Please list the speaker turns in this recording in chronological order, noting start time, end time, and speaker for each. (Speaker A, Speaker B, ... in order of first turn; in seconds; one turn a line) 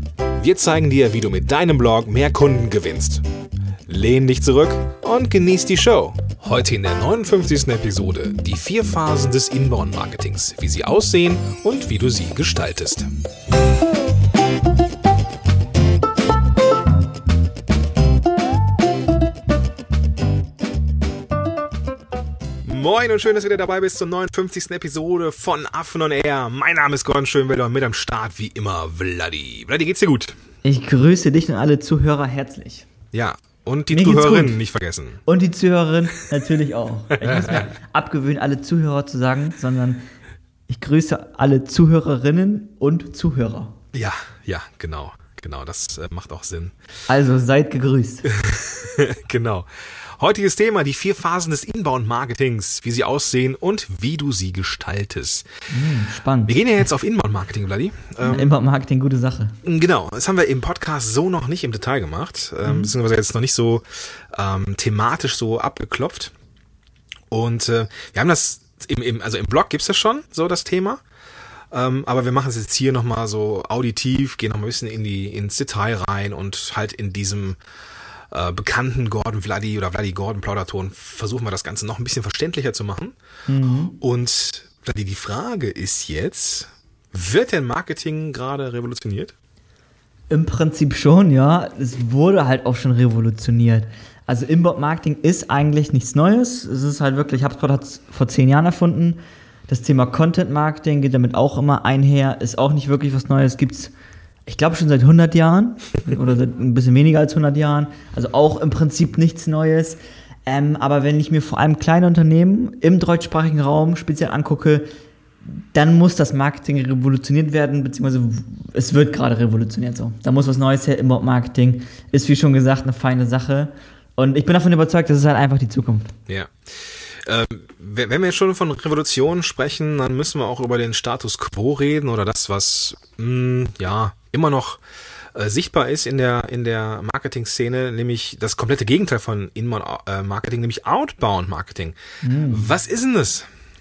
Speaker A: 0.4-3.2
Speaker A: 3.9-13.1
Speaker A: 22.6-30.4
Speaker B: 30.6-32.9
Speaker A: 33.1-35.2
Speaker B: 33.9-34.6
Speaker B: 35.2-40.0
Speaker A: 37.2-37.7
Speaker B: 40.7-43.7
Speaker A: 43.9-46.7
Speaker B: 47.1-48.3
Speaker A: 48.3-55.5
Speaker B: 55.7-56.6
Speaker A: 56.5-58.5
Speaker B: 58.2-59.6
Speaker A: 59.6-66.3
Speaker B: 62.6-62.9
Speaker A: 67.3-71.0
Speaker A: 71.7-77.6
Speaker A: 78.3-83.2
Speaker B: 83.5-84.0
Speaker A: 83.9-89.3
Speaker B: 90.3-103.9
Speaker B: 104.5-114.8
Speaker B: 115.6-126.1
Speaker A: 126.3-134.8
Speaker A: 135.3-142.0
Speaker B: 142.2-142.7
Speaker A: 142.5-143.5